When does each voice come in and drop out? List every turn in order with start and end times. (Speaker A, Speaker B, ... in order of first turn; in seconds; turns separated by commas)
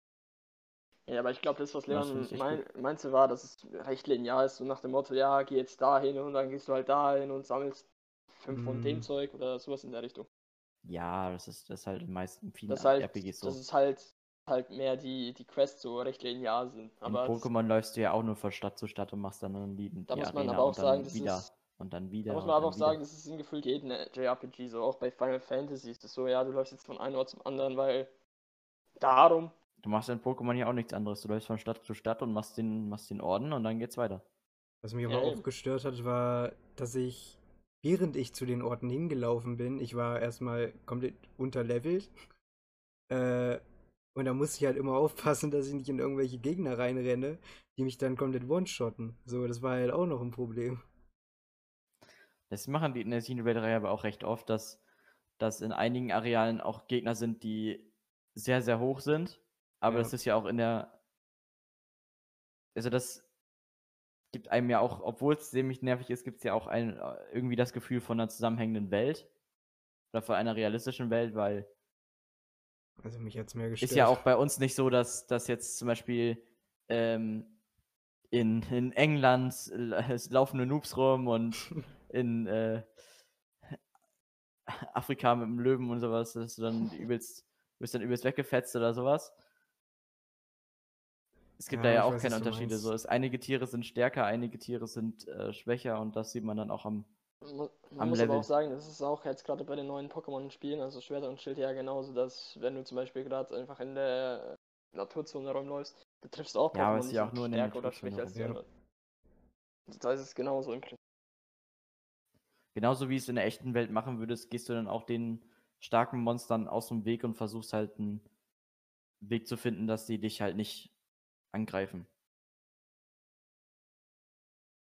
Speaker A: 1.1-10.3, Speaker B: 1.9-2.6, Speaker C: 8.5-9.1, Speaker B: 10.8-13.6, Speaker A: 12.7-17.5, Speaker B: 17.1-23.0, Speaker A: 20.1-21.5, Speaker A: 22.3-28.1, Speaker A: 29.0-29.5, Speaker B: 29.8-34.2, Speaker C: 34.8-42.1, Speaker A: 35.0-35.4, Speaker C: 43.1-43.6, Speaker C: 44.1-50.8, Speaker B: 52.5-54.8, Speaker B: 55.4-60.9, Speaker C: 59.9-60.1, Speaker B: 62.7-63.2, Speaker B: 64.3-69.3, Speaker B: 70.1-71.7, Speaker C: 73.0-74.2, Speaker B: 73.8-77.5, Speaker B: 78.3-82.8, Speaker B: 84.7-89.3, Speaker B: 91.6-97.1, Speaker C: 91.7-92.9, Speaker A: 97.4-108.7, Speaker B: 98.0-98.5, Speaker B: 106.7-108.5, Speaker C: 108.3-108.6, Speaker A: 109.9-111.0, Speaker B: 112.7-118.2, Speaker B: 119.2-120.9, Speaker B: 121.5-122.1